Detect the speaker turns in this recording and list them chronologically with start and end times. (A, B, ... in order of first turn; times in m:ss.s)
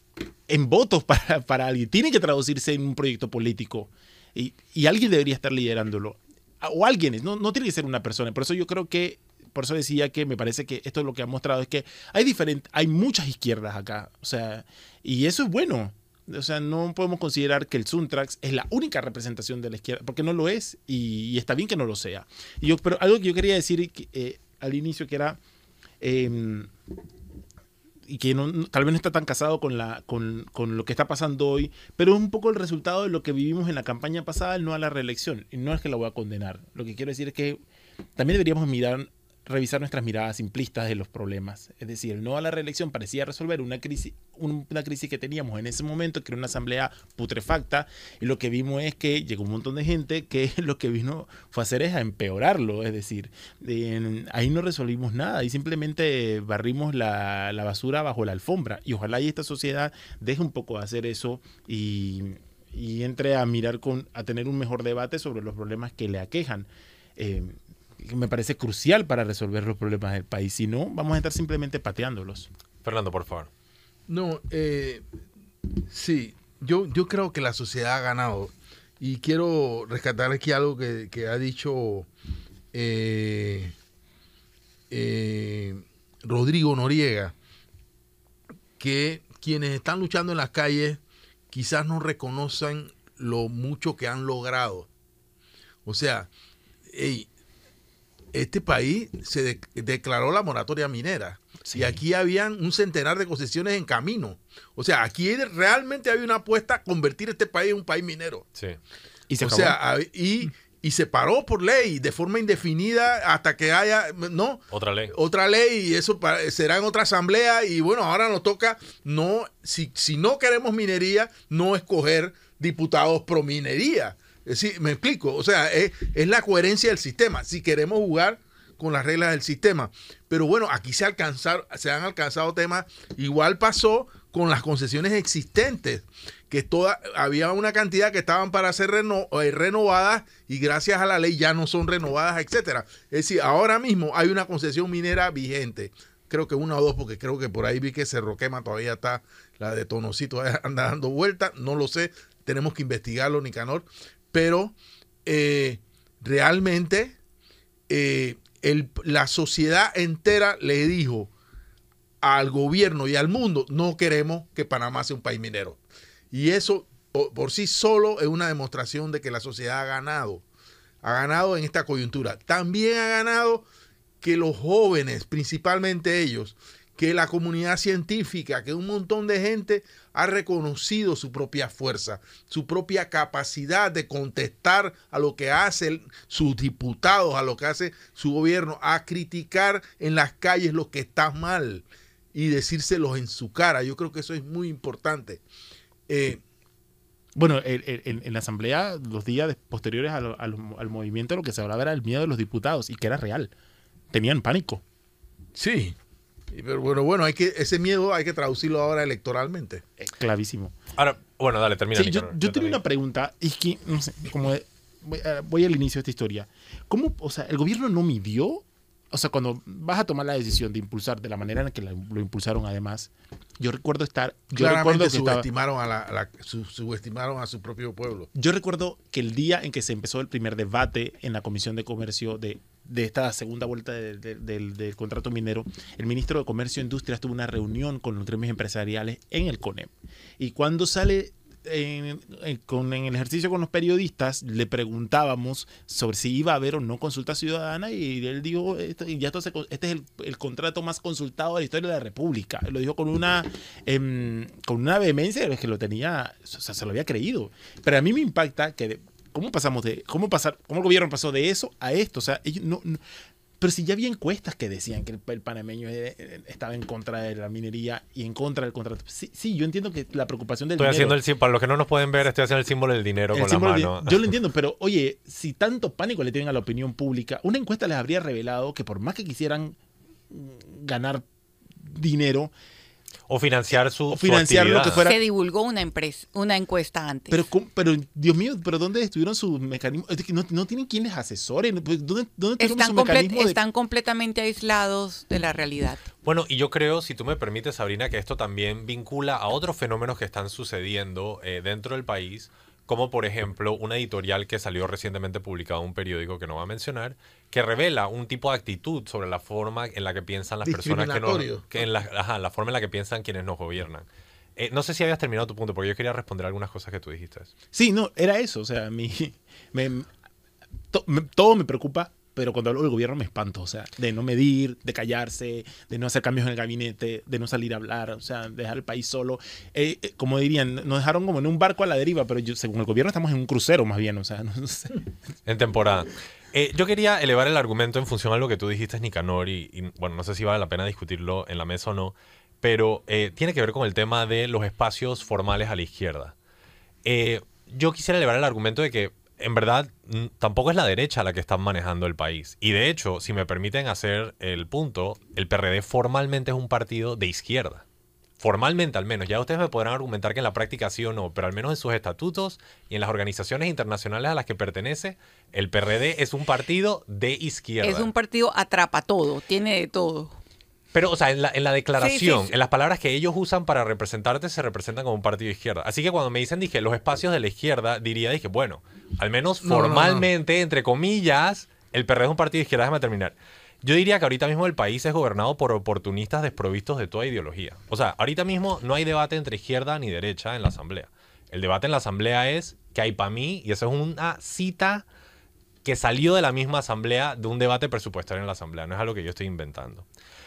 0:00.5-0:25.4 A
0:26.0-0:26.7 A
0:28.1-0:37.6 A
0:38.2-1:12.5 A
1:12.8-1:13.5 B
1:14.1-1:15.0 C
1:15.9-1:22.1 C
1:22.7-1:23.7 C
1:24.9-1:27.4 C
1:28.8-1:31.0 C
1:31.5-1:34.9 C
1:35.9-1:36.3 C
1:36.9-1:37.3 C
1:38.3-1:48.5 C
1:41.7-1:42.0 A
1:49.3-1:49.8 A
1:49.4-2:37.2 C
1:54.7-1:55.1 B
2:37.9-2:41.3 C
2:42.2-2:45.8 C
2:46.3-2:50.4 C
2:51.0-2:53.7 C
2:54.2-3:15.4 C
3:16.1-3:16.4 C
3:17.4-3:23.5 A
3:24.1-3:24.8 A
3:25.6-3:26.0 C
3:26.5-3:29.8 C
3:30.0-3:30.7 A
3:31.0-3:32.8 B
3:32.0-3:45.5 A
3:44.5-3:48.3 C
3:48.4-4:23.0 A
4:23.6-4:31.2 A
4:30.8-4:34.3 B
4:33.3-4:39.8 A
4:40.3-4:41.2 A
4:41.8-4:42.5 A
4:43.3-4:45.1 B
4:44.1-4:45.2 A
4:45.0-4:47.4 D
4:47.3-4:53.6 A
4:52.6-4:56.0 D
4:56.2-5:17.5 B
5:10.6-5:11.8 C
5:17.7-5:20.1 A
5:20.9-5:35.0 A
5:35.5-5:46.4 B
5:47.0-5:57.8 B
5:58.4-6:08.1 B
6:07.8-6:10.4 D
6:10.9-6:35.0 B
6:12.0-6:12.5 D
6:19.6-6:20.3 C
6:35.8-6:40.1 B